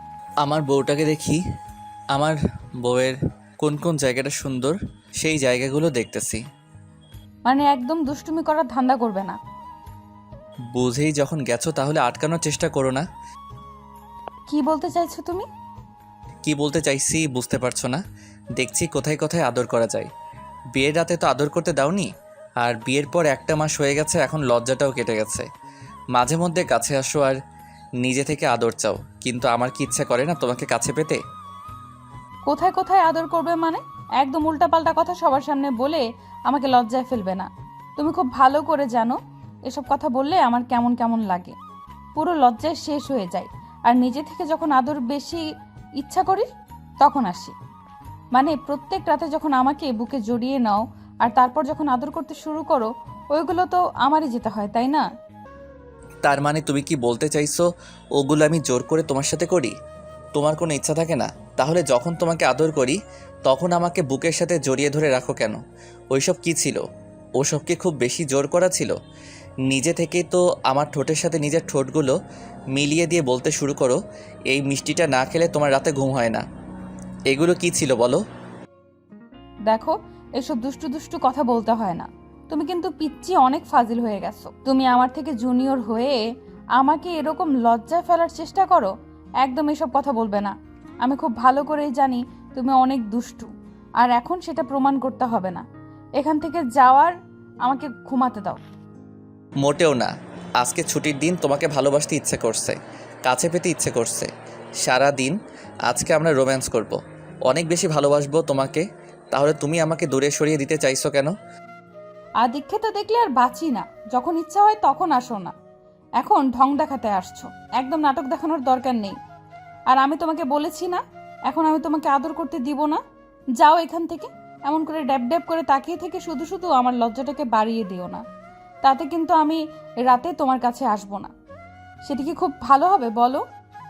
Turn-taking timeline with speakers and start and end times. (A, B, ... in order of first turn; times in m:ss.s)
0:00.4-0:01.4 A
0:02.1-0:06.4 A
0:07.5-0:09.4 B
0:10.7-0:13.0 A
0:14.5-0:15.5 B
0:16.4-0:18.0 A
0:18.6-0:20.1 A
0:20.8-0:22.1 A
0:22.6-0:25.4 A
0:26.1-0:27.4 A
0:28.0-0:31.2 A
0:32.4-0:41.6 B
0:42.2-0:45.4 B
0:46.0-0:46.5 B
0:47.0-0:47.6 B
0:48.3-0:55.0 B
0:56.2-0:57.6 A
0:58.2-0:59.7 A
1:00.3-1:05.6 A
1:06.1-1:06.8 A
1:07.4-1:08.9 A
1:09.7-1:12.1 A
1:12.7-1:14.0 A
1:14.5-1:16.4 A
1:17.3-1:18.2 A
1:19.7-1:26.2 B
1:26.8-1:28.9 B
1:29.4-1:33.5 B
1:34.0-1:35.6 B
1:36.2-1:38.6 B
1:39.6-1:44.3 A
1:44.8-1:45.3 A
1:45.9-1:51.3 A
1:52.4-1:55.5 B
1:56.2-1:59.2 B
1:59.9-2:03.0 B
2:03.6-2:08.2 B
2:08.8-2:11.3 B
2:12.0-2:13.4 B